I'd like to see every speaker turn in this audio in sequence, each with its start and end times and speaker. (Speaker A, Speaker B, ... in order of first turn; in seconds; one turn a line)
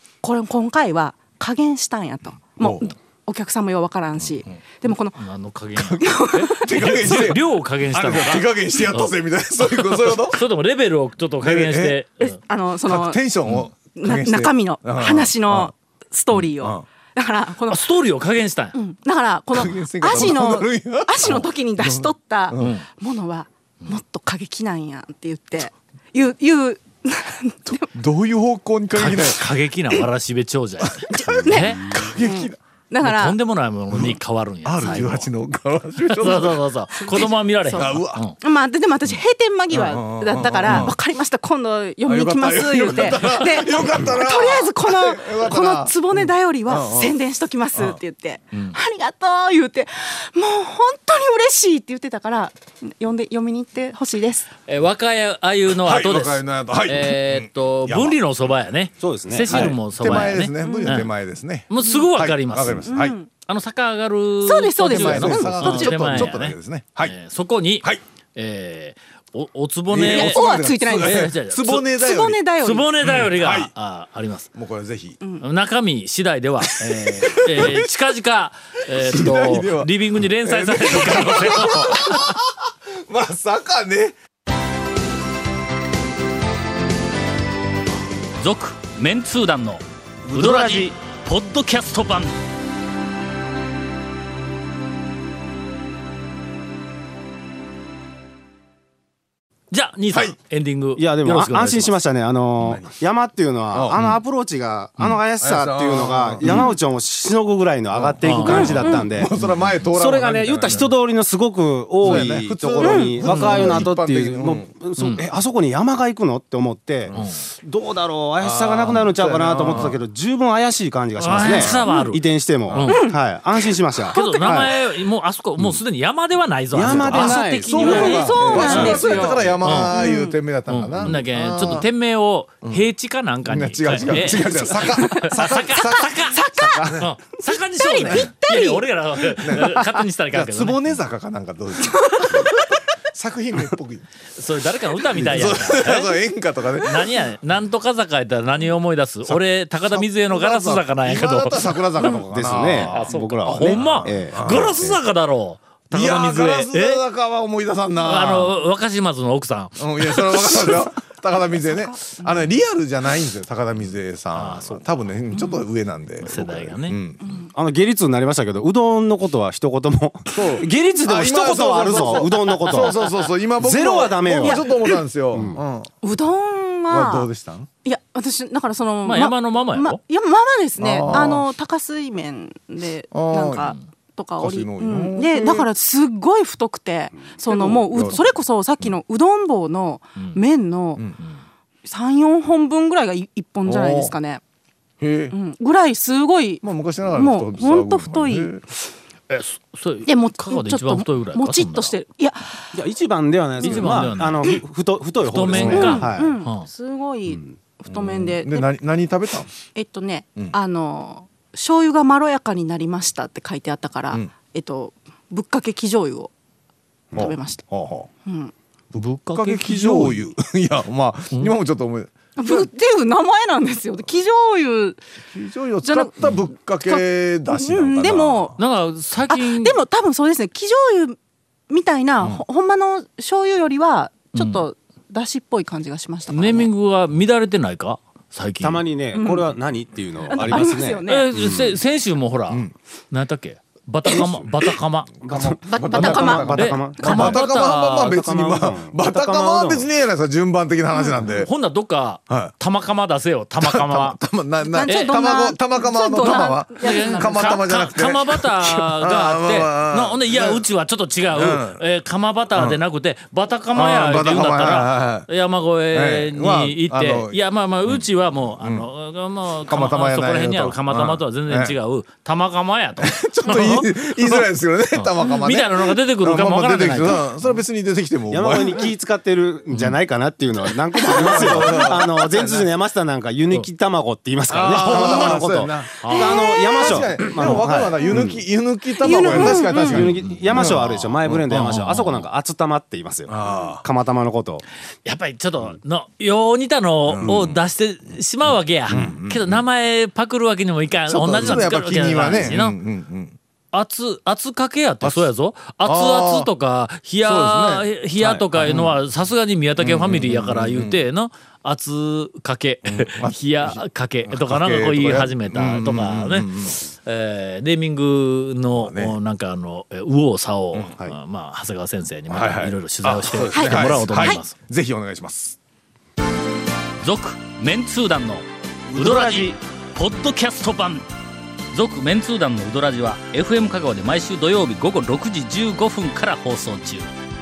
Speaker A: 0.2-5.2
Speaker B: 2.6-2.9
Speaker C: 4.5-12.4
Speaker B: 5.8-10.4
Speaker A: 5.9-7.3
Speaker B: 11.4-12.0
Speaker A: 12.2-13.3
Speaker B: 12.9-15.7
Speaker C: 13.5-13.7
Speaker A: 13.8-17.8
Speaker B: 16.3-16.8
Speaker C: 17.7-18.8
Speaker A: 18.7-27.9
Speaker B: 19.5-22.8
Speaker C: 22.6-22.9
Speaker B: 27.9-29.4
Speaker C: 28.9-32.0
Speaker B: 30.8-32.6
Speaker A: 31.1-33.4
Speaker C: 33.0-35.3
Speaker B: 33.9-38.3
Speaker C: 36.0-38.4
Speaker A: 37.1-37.3
Speaker A: 38.4-54.5
Speaker B: 39.7-40.9
Speaker B: 42.0-47.1
Speaker C: 48.5-48.8
Speaker C: 54.7-61.1
Speaker B: 55.7-58.2
Speaker D: 59.0-59.8
Speaker B: 59.5-63.1
Speaker A: 60.6-61.0
Speaker C: 61.7-72.0
Speaker A: 61.8-62.1
Speaker A: 62.8-63.3
Speaker A: 64.4-66.3
Speaker B: 64.8-67.2
Speaker B: 69.9-72.4
Speaker A: 70.0-71.3
Speaker A: 71.9-72.9
Speaker C: 72.6-74.5
Speaker B: 73.0-73.7
Speaker B: 74.5-75.2
Speaker A: 75.2-75.5
Speaker C: 75.4-82.4
Speaker B: 76.8-77.8
Speaker B: 78.9-84.2
Speaker A: 81.1-81.7
Speaker C: 88.4-92.3
Speaker B: 90.3-90.9
Speaker C: 99.7-102.1
Speaker B: 100.1-100.4
Speaker D: 101.0-109.3
Speaker B: 102.6-102.9
Speaker B: 103.7-104.2
Speaker B: 105.4-106.7
Speaker C: 106.5-106.7
Speaker B: 107.9-111.0
Speaker C: 108.2-108.9
Speaker A: 108.5-109.1
Speaker C: 109.4-109.8
Speaker D: 109.9-124.8
Speaker B: 112.0-114.7
Speaker A: 112.8-113.3
Speaker C: 113.2-113.9
Speaker C: 115.0-115.2
Speaker B: 117.1-117.3
Speaker C: 117.2-117.4
Speaker B: 118.4-120.0
Speaker C: 121.2-123.0
Speaker B: 121.2-121.8
Speaker A: 122.9-124.6
Speaker C: 124.1-130.0
Speaker D: 126.7-129.1
Speaker B: 126.9-131.9
Speaker A: 127.7-130.4
Speaker C: 130.7-136.4
Speaker B: 133.4-137.1
Speaker A: 134.9-138.8
Speaker C: 137.0-141.0
Speaker B: 138.0-138.3
Speaker B: 139.2-142.6
Speaker A: 141.9-142.6
Speaker B: 143.1-144.1
Speaker C: 144.3-146.2
Speaker B: 145.1-147.3
Speaker C: 146.8-152.2
Speaker B: 149.3-154.9
Speaker D: 152.1-155.0
Speaker C: 152.8-157.0
Speaker B: 155.9-158.6
Speaker C: 158.0-160.8
Speaker B: 159.8-167.3
Speaker A: 161.7-162.4
Speaker C: 164.3-165.5
Speaker C: 166.2-167.0
Speaker A: 167.2-167.5
Speaker D: 167.5-174.7
Speaker B: 170.3-175.9
Speaker A: 174.4-174.9
Speaker D: 175.3-175.6
Speaker A: 176.0-177.3
Speaker B: 176.9-177.7
Speaker A: 177.8-191.0
Speaker C: 179.1-180.0
Speaker B: 180.8-181.4
Speaker B: 183.1-183.8
Speaker B: 184.4-185.7
Speaker B: 187.5-188.3
Speaker A: 191.8-194.4
Speaker B: 193.7-194.1
Speaker B: 195.0-195.3
Speaker A: 195.3-198.8
Speaker B: 196.6-198.6
Speaker C: 199.3-201.9
Speaker A: 200.1-202.7
Speaker D: 202.7-206.3
Speaker C: 203.6-204.6
Speaker C: 205.2-206.7
Speaker B: 205.5-206.1
Speaker A: 205.6-208.7
Speaker B: 207.9-209.5
Speaker A: 209.7-216.3
Speaker A: 217.1-217.7
Speaker B: 217.2-218.1
Speaker A: 218.2-218.5
Speaker B: 219.0-222.7
Speaker C: 219.0-220.2
Speaker A: 222.4-225.0
Speaker B: 225.3-228.6
Speaker A: 225.8-226.2
Speaker A: 226.8-228.5
Speaker C: 228.6-229.8
Speaker A: 229.3-231.2
Speaker A: 231.7-236.7
Speaker C: 234.3-234.6
Speaker C: 236.3-238.8
Speaker D: 238.6-241.8
Speaker A: 239.1-239.5
Speaker A: 240.2-241.3
Speaker C: 240.4-245.3
Speaker D: 244.1-244.5
Speaker D: 245.2-249.9
Speaker B: 245.3-251.5
Speaker A: 245.6-247.2
Speaker C: 246.0-248.1
Speaker A: 250.9-251.3
Speaker C: 251.3-254.2
Speaker B: 252.3-252.5
Speaker B: 253.6-260.7
Speaker A: 254.6-257.5
Speaker C: 254.9-255.2
Speaker C: 256.1-277.6
Speaker B: 261.3-261.8
Speaker B: 262.5-262.8
Speaker B: 263.7-265.3
Speaker B: 265.9-268.9
Speaker B: 269.7-271.8
Speaker B: 273.0-278.9
Speaker D: 278.3-288.4
Speaker C: 279.7-280.0
Speaker B: 281.0-282.7
Speaker B: 284.5-291.6
Speaker C: 284.9-285.4
Speaker C: 286.0-286.4
Speaker A: 286.1-287.0
Speaker A: 288.0-288.3
Speaker A: 289.0-290.2
Speaker D: 289.2-294.6
Speaker C: 290.2-292.3
Speaker B: 293.3-293.8
Speaker C: 295.1-302.8
Speaker B: 297.1-297.6
Speaker B: 298.9-299.6
Speaker B: 301.1-303.4
Speaker C: 303.7-324.5
Speaker B: 305.0-305.3
Speaker B: 305.8-306.5
Speaker B: 307.2-309.0
Speaker B: 309.8-311.0
Speaker B: 312.8-316.8
Speaker B: 318.8-319.2
Speaker B: 322.3-325.6
Speaker A: 323.5-324.4
Speaker C: 327.0-331.1
Speaker D: 328.9-329.6
Speaker C: 331.7-337.1